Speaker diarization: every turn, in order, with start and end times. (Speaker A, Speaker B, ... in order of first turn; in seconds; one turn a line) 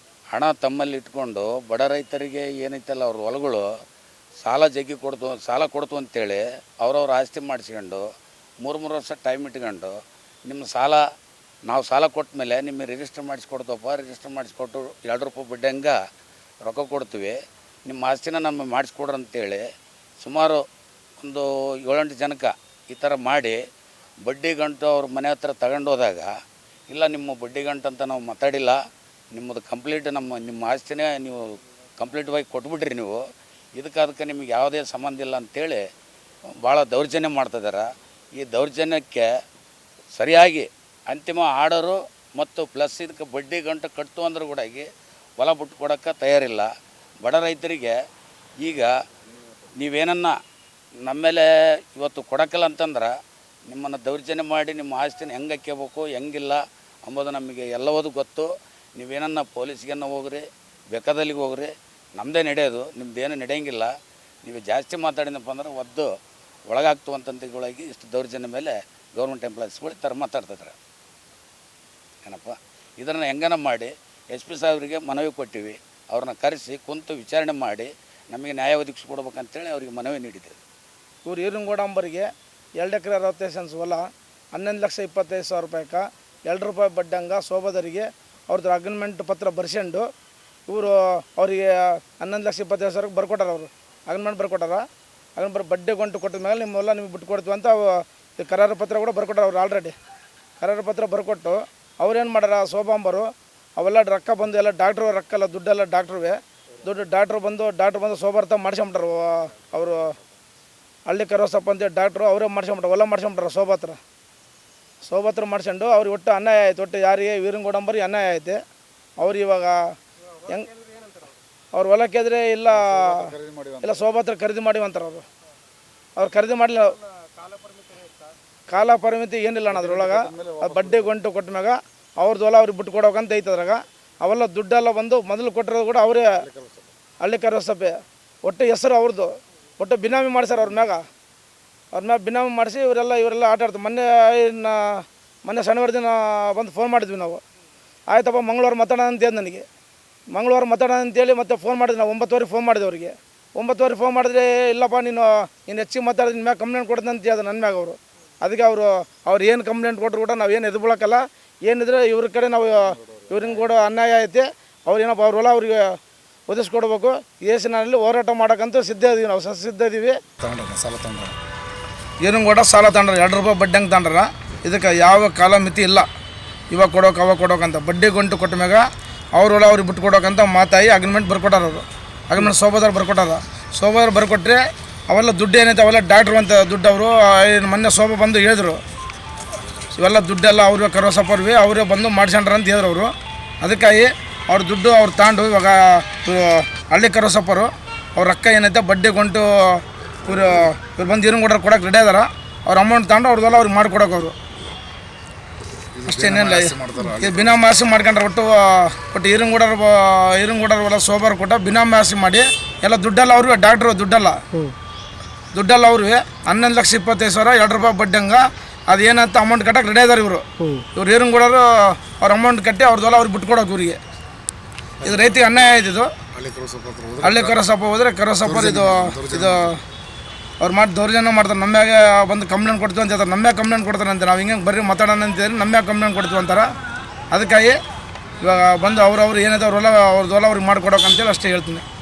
Speaker A: 0.3-3.7
Speaker A: 4.4-8.0
Speaker A: 8.6-9.9
Speaker A: 10.5-11.0
Speaker A: 11.7-16.0
Speaker A: 16.6-19.6
Speaker A: 20.2-20.6
Speaker A: 21.2-23.6
Speaker A: 24.2-26.3
Speaker A: 26.9-28.8
Speaker A: 29.4-33.2
Speaker A: 33.8-35.8
Speaker A: 36.6-37.9
Speaker A: 38.4-39.3
Speaker A: 40.1-44.9
Speaker A: 45.4-46.7
Speaker A: 47.2-48.0
Speaker A: 48.6-48.9
Speaker A: 49.8-50.4
Speaker A: 51.0-53.1
Speaker A: 53.7-63.9
Speaker A: 64.5-66.1
Speaker A: 66.7-70.8
Speaker A: 72.2-80.6
Speaker B: 81.2-82.3
Speaker B: 82.8-90.1
Speaker B: 90.7-94.8
Speaker B: 95.4-100.0
Speaker B: 100.6-110.1
Speaker B: 111.1-114.0
Speaker B: 115.0-118.6
Speaker B: 119.2-119.8
Speaker B: 121.7-125.2
Speaker C: 122.7-124.0
Speaker B: 126.2-127.0
Speaker B: 128.7-136.5
Speaker C: 129.7-131.1
Speaker C: 136.4-136.9
Speaker B: 137.2-141.0
Speaker B: 141.9-147.4
Speaker B: 148.1-149.7
Speaker B: 150.3-165.9
Speaker C: 162.9-163.7
Speaker B: 166.5-170.2
Speaker C: 170.4-171.4
Speaker B: 172.2-176.1
Speaker B: 176.7-188.8
Speaker B: 189.9-204.3
Speaker C: 205.9-207.6
Speaker B: 206.1-214.4
Speaker B: 215.5-224.0
Speaker C: 225.0-225.3
Speaker B: 225.0-226.1
Speaker C: 226.3-227.6
Speaker B: 227.2-229.8
Speaker C: 228.4-229.8
Speaker B: 230.6-236.7
Speaker B: 237.3-237.8
Speaker B: 238.4-241.8